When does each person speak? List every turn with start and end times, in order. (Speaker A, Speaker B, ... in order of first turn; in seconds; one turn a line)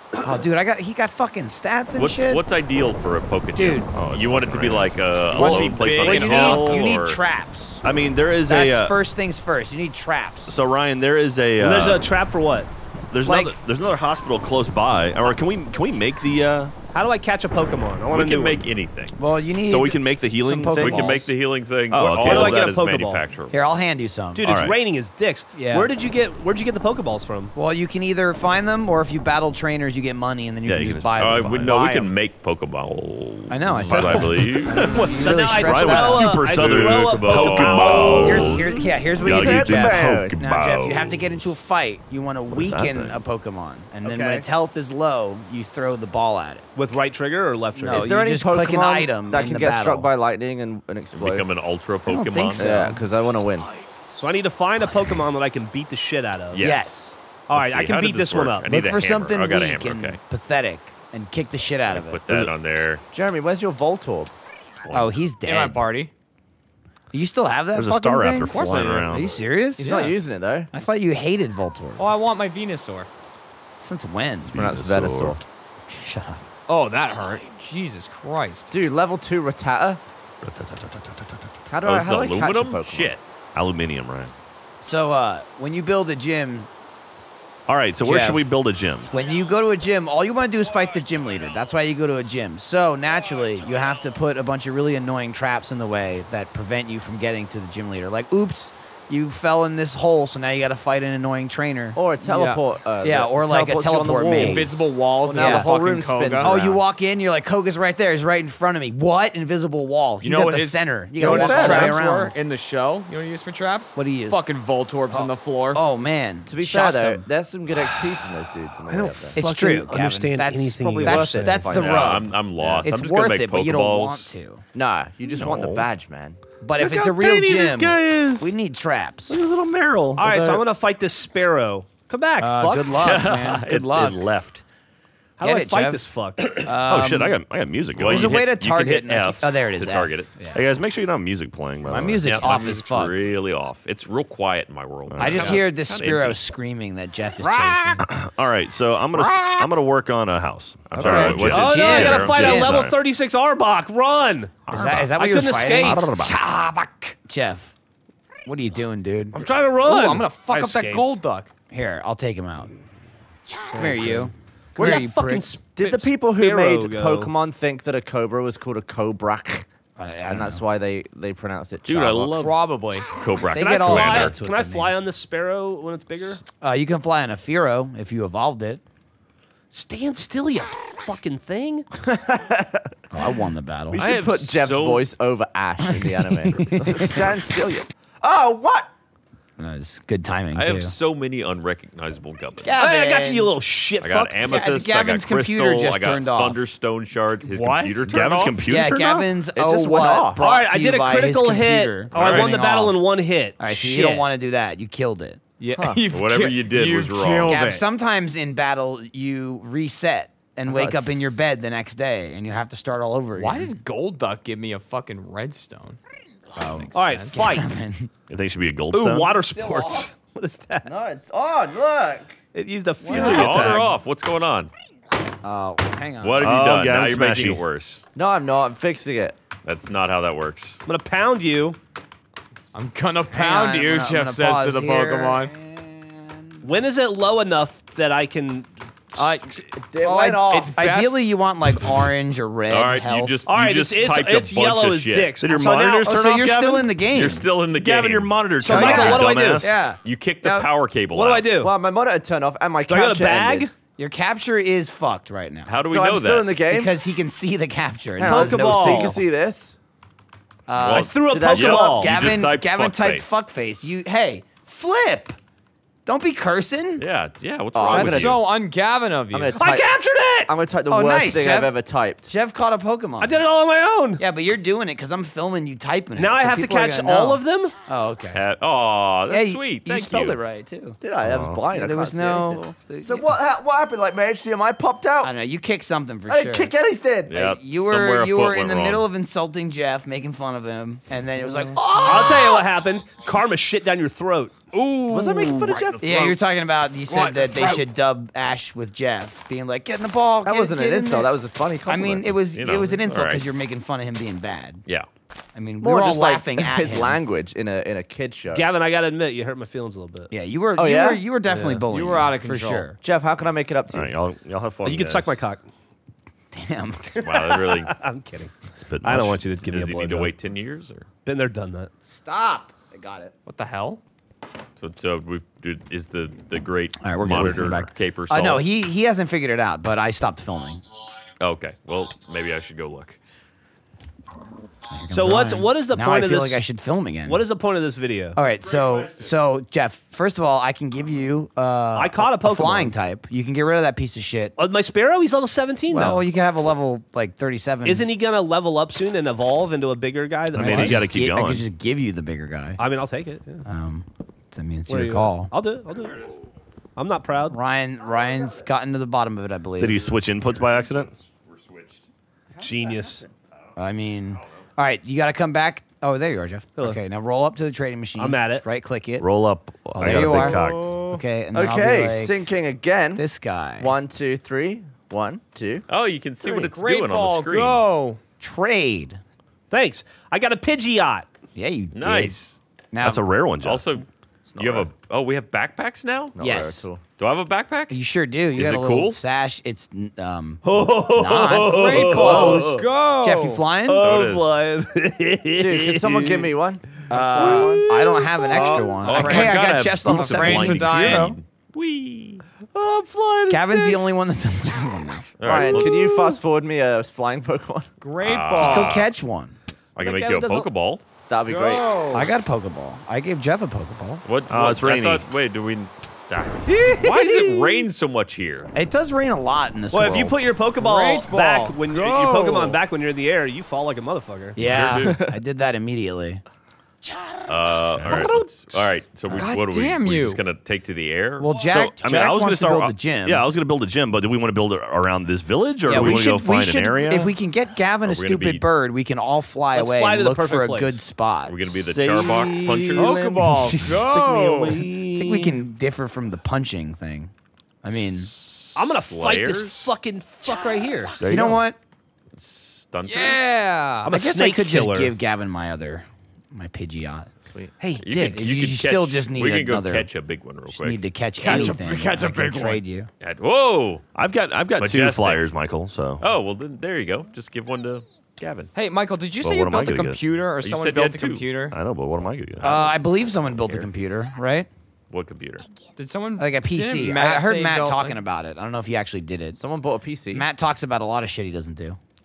Speaker A: 0.2-2.4
Speaker B: 2.0-7.2
Speaker A: 3.6-3.9
Speaker C: 3.9-6.0
Speaker D: 5.3-7.0
Speaker A: 5.4-7.8
Speaker C: 7.8-8.9
Speaker A: 8.4-10.5
Speaker C: 10.5-12.1
Speaker E: 11.6-12.7
Speaker C: 13.1-16.8
Speaker A: 13.2-13.6
Speaker E: 16.9-18.6
Speaker B: 18.1-19.2
Speaker A: 19.2-21.3
Speaker C: 19.6-21.2
Speaker B: 20.8-23.5
Speaker C: 21.9-22.7
Speaker E: 22.1-23.3
Speaker A: 23.5-24.5
Speaker E: 24.4-27.5
Speaker C: 24.4-24.8
Speaker A: 25.5-25.9
Speaker A: 27.6-32.1
Speaker C: 30.7-31.7
Speaker B: 31.2-35.0
Speaker A: 33.5-36.4
Speaker C: 33.8-41.2
Speaker E: 34.9-38.4
Speaker B: 36.5-38.8
Speaker A: 37.9-46.6
Speaker F: 39.2-40.4
Speaker C: 42.5-43.2
Speaker E: 44.0-44.5
Speaker E: 46.8-48.3
Speaker A: 47.8-50.1
Speaker F: 47.9-51.5
Speaker B: 51.2-52.7
Speaker A: 52.1-53.0
Speaker F: 52.6-53.7
Speaker E: 54.2-56.7
Speaker B: 56.5-56.9
Speaker A: 56.6-57.1
Speaker E: 57.5-58.7
Speaker B: 57.5-60.2
Speaker A: 58.7-62.2
Speaker B: 61.9-63.0
Speaker F: 63.1-64.3
Speaker B: 64.8-65.1
Speaker A: 64.9-65.8
Speaker D: 65.4-66.1
Speaker A: 67.1-69.9
Speaker C: 67.8-69.5
Speaker D: 68.5-69.1
Speaker B: 68.5-69.0
Speaker D: 69.8-70.2
Speaker F: 69.8-70.7
Speaker A: 70.7-72.1
Speaker D: 72.0-73.1
Speaker A: 73.8-74.5
Speaker C: 74.5-75.4
Speaker F: 74.5-75.4
Speaker A: 75.9-76.5
Speaker D: 76.7-78.7
Speaker F: 78.7-80.0
Speaker C: 80.4-81.5
Speaker F: 81.7-83.2
Speaker B: 81.8-83.2
Speaker C: 83.5-84.3
Speaker A: 84.8-86.7
Speaker C: 87.7-89.1
Speaker A: 88.0-88.5
Speaker A: 89.1-102.0
Speaker F: 102.0-106.8
Speaker D: 102.2-102.6
Speaker A: 103.0-104.7
Speaker D: 104.3-106.5
Speaker A: 105.3-105.7
Speaker A: 106.4-112.3
Speaker D: 110.2-115.8
Speaker F: 111.2-112.0
Speaker A: 114.0-114.4
Speaker A: 115.1-117.2
Speaker F: 116.5-119.4
Speaker E: 118.9-121.8
Speaker A: 119.3-124.6
Speaker F: 121.0-122.9
Speaker B: 121.8-124.3
Speaker F: 124.8-126.4
Speaker C: 125.3-125.9
Speaker A: 126.6-129.4
Speaker C: 126.8-128.5
Speaker C: 129.3-130.6
Speaker E: 130.2-132.9
Speaker A: 132.4-134.2
Speaker B: 132.9-134.6
Speaker E: 135.4-136.7
Speaker A: 135.4-137.4
Speaker C: 136.8-138.4
Speaker B: 138.0-140.3
Speaker A: 138.0-140.6
Speaker C: 140.5-142.3
Speaker A: 141.9-143.2
Speaker B: 142.3-146.4
Speaker C: 145.1-145.6
Speaker A: 145.2-148.1
Speaker E: 147.4-148.0
Speaker C: 148.1-153.0
Speaker A: 149.1-149.8
Speaker B: 150.9-152.6
Speaker A: 150.9-152.9
Speaker E: 151.2-156.1
Speaker C: 154.7-155.1
Speaker A: 154.7-156.3
Speaker C: 155.7-156.3
Speaker D: 156.2-157.1
Speaker A: 157.2-157.7
Speaker A: 158.4-159.4
Speaker E: 159.3-161.2
Speaker D: 159.8-161.5
Speaker A: 161.7-162.7
Speaker A: 163.7-165.5
Speaker E: 163.8-164.2
Speaker E: 164.8-167.3
Speaker F: 165.8-169.7
Speaker A: 170.0-170.6
Speaker F: 170.3-172.3
Speaker B: 171.9-174.4
Speaker D: 172.3-173.1
Speaker A: 173.5-175.0
Speaker E: 173.6-176.4
Speaker A: 176.6-178.8
Speaker E: 179.7-181.9
Speaker F: 182.0-182.9
Speaker A: 183.1-184.0
Speaker F: 183.9-188.9
Speaker B: 183.9-185.1
Speaker A: 185.8-187.3
Speaker A: 189.6-190.9
Speaker B: 190.5-192.7
Speaker A: 192.6-193.5
Speaker E: 192.8-194.3
Speaker B: 194.0-198.6
Speaker A: 194.4-196.6
Speaker D: 197.4-198.1
Speaker C: 198.1-199.3
Speaker A: 198.7-203.0
Speaker F: 199.5-200.4
Speaker E: 200.4-204.3
Speaker B: 202.1-202.5
Speaker D: 202.2-202.5
Speaker A: 203.6-205.4
Speaker D: 205.6-207.8
Speaker F: 205.7-206.0
Speaker B: 206.1-207.7
Speaker A: 207.4-213.8
Speaker F: 210.7-211.4
Speaker D: 213.4-216.0
Speaker A: 216.6-218.1
Speaker D: 216.7-217.5
Speaker E: 216.9-217.7
Speaker C: 218.3-219.4
Speaker E: 218.9-221.0
Speaker A: 219.6-220.1
Speaker F: 220.8-222.4
Speaker E: 222.5-223.9
Speaker A: 223.0-223.8
Speaker B: 223.1-224.7
Speaker A: 225.4-226.5
Speaker B: 226.2-228.0
Speaker C: 226.4-227.6
Speaker F: 228.2-229.4
Speaker B: 229.7-230.8
Speaker E: 230.9-231.8
Speaker D: 232.7-235.5
Speaker A: 233.3-236.6
Speaker E: 236.6-239.4
Speaker D: 239.1-241.2
Speaker F: 239.8-240.8
Speaker A: 240.8-243.4
Speaker B: 242.7-245.4
Speaker E: 243.5-246.1
Speaker C: 245.4-246.9
Speaker A: 246.0-247.5
Speaker B: 247.1-248.4
Speaker C: 247.7-249.7
Speaker E: 248.6-249.7
Speaker A: 248.7-249.8
Speaker D: 249.6-250.0
Speaker B: 250.0-251.5
Speaker E: 251.1-251.7
Speaker F: 251.6-253.7
Speaker E: 252.9-253.7
Speaker A: 254.0-255.8
Speaker B: 255.7-256.5
Speaker F: 255.9-256.9
Speaker A: 256.7-259.2
Speaker E: 258.2-259.2
Speaker F: 258.2-259.8
Speaker A: 260.7-265.4
Speaker B: 260.8-263.4
Speaker E: 260.9-262.2
Speaker F: 261.3-262.0
Speaker A: 266.1-267.1
Speaker B: 267.0-268.4
Speaker F: 267.7-268.4
Speaker D: 267.9-269.6
Speaker F: 269.3-272.3
Speaker E: 269.6-270.5
Speaker A: 270.9-271.7
Speaker A: 272.3-273.4
Speaker E: 273.2-274.2
Speaker A: 274.2-278.4
Speaker E: 276.1-277.7
Speaker B: 278.3-280.4
Speaker A: 279.3-281.0
Speaker F: 281.0-285.3
Speaker C: 281.2-281.6
Speaker A: 281.7-283.3
Speaker A: 285.2-286.7
Speaker F: 286.3-287.4
Speaker B: 287.3-289.1
Speaker A: 287.3-292.6
Speaker E: 292.0-294.7
Speaker B: 294.7-296.3
Speaker F: 295.1-296.1
Speaker E: 295.5-296.1
Speaker A: 296.0-301.3
Speaker F: 300.4-302.5
Speaker A: 301.9-304.9
Speaker B: 302.5-303.5
Speaker A: 305.6-307.2
Speaker F: 305.8-308.7
Speaker E: 308.5-310.3
Speaker A: 310.3-313.0
Speaker F: 310.8-311.3
Speaker E: 311.5-311.9
Speaker D: 311.9-313.0
Speaker F: 313.0-314.1
Speaker C: 313.9-315.4
Speaker E: 314.8-315.7
Speaker A: 316.5-317.2
Speaker B: 317.2-317.9
Speaker E: 317.5-320.3
Speaker C: 318.8-319.5
Speaker B: 319.6-321.1
Speaker E: 321.2-321.9
Speaker A: 322.1-323.3
Speaker D: 323.5-324.0
Speaker B: 324.8-328.7
Speaker A: 327.0-330.8
Speaker C: 327.3-327.7
Speaker B: 331.4-333.2
Speaker A: 334.9-337.4
Speaker E: 335.1-336.6
Speaker E: 337.2-338.4
Speaker A: 338.4-344.6
Speaker B: 338.6-339.3
Speaker E: 341.9-342.9
Speaker E: 344.6-346.2
Speaker A: 345.9-348.1
Speaker E: 347.9-351.1
Speaker C: 350.5-351.7
Speaker A: 350.5-352.8
Speaker E: 352.8-353.6
Speaker A: 353.6-355.5
Speaker E: 354.9-356.3
Speaker E: 357.0-357.6
Speaker A: 357.5-360.0
Speaker C: 359.8-361.1
Speaker B: 360.1-362.1
Speaker E: 362.6-363.2
Speaker A: 363.8-369.3
Speaker E: 368.2-368.6
Speaker C: 369.2-370.9
Speaker F: 369.9-370.8
Speaker A: 369.9-372.4
Speaker F: 371.5-373.3
Speaker A: 373.2-373.9
Speaker F: 373.8-375.9
Speaker B: 375.9-377.9
Speaker D: 376.4-378.2
Speaker A: 378.4-379.2
Speaker E: 379.7-381.3
Speaker A: 381.6-382.4
Speaker B: 381.9-382.6
Speaker A: 382.9-383.2
Speaker C: 383.0-383.9
Speaker B: 383.6-386.4
Speaker F: 384.5-384.9
Speaker F: 386.4-387.0
Speaker A: 386.4-386.9
Speaker B: 387.2-388.0
Speaker A: 387.9-394.1
Speaker B: 388.5-389.2
Speaker E: 390.6-392.9
Speaker B: 391.2-392.3
Speaker D: 391.6-393.7
Speaker E: 393.8-396.5
Speaker B: 394.0-394.6
Speaker F: 395.6-397.9
Speaker A: 397.1-401.3
Speaker D: 397.1-397.8
Speaker E: 397.4-399.2
Speaker D: 398.5-401.4
Speaker B: 399.0-402.4
Speaker E: 402.7-404.1
Speaker A: 403.5-405.8
Speaker B: 405.4-406.0
Speaker F: 405.4-407.9
Speaker D: 408.0-409.0
Speaker B: 408.2-409.1
Speaker A: 408.6-409.6
Speaker B: 410.0-411.0
Speaker E: 410.0-410.7
Speaker F: 411.2-411.9
Speaker D: 411.5-412.4
Speaker A: 412.1-414.2
Speaker B: 414.2-418.7
Speaker C: 414.5-415.2
Speaker E: 416.7-417.6
Speaker A: 418.7-420.4
Speaker E: 419.9-424.7
Speaker D: 420.8-422.8
Speaker A: 424.6-426.4
Speaker B: 424.6-425.2
Speaker F: 424.9-425.3
Speaker B: 427.5-431.5
Speaker C: 428.0-428.4
Speaker D: 429.3-430.4
Speaker A: 431.4-433.5
Speaker C: 431.6-437.3
Speaker A: 435.9-441.6
Speaker B: 438.0-438.7
Speaker E: 439.7-441.0
Speaker B: 441.4-443.2
Speaker C: 441.8-445.6
Speaker D: 442.9-444.9
Speaker A: 443.5-444.0
Speaker A: 445.1-448.3
Speaker B: 447.9-449.9
Speaker E: 448.8-451.2
Speaker C: 451.2-451.6
Speaker A: 451.2-451.8
Speaker B: 452.3-453.6
Speaker D: 453.1-454.1
Speaker E: 454.0-455.1
Speaker A: 454.1-457.3
Speaker F: 457.4-457.7
Speaker E: 457.8-458.3
Speaker B: 458.0-461.1
Speaker A: 458.2-460.1
Speaker A: 460.7-463.1
Speaker D: 461.4-462.8
Speaker B: 463.2-464.0
Speaker C: 464.1-466.2
Speaker B: 464.8-465.5
Speaker B: 466.2-468.7
Speaker D: 468.8-471.8
Speaker C: 469.4-470.2
Speaker B: 470.6-471.5
Speaker C: 471.7-472.7
Speaker B: 472.6-472.9
Speaker A: 472.6-474.7
Speaker B: 475.1-475.7
Speaker D: 476.0-478.2
Speaker A: 476.4-479.6
Speaker F: 479.6-480.5
Speaker A: 480.3-482.0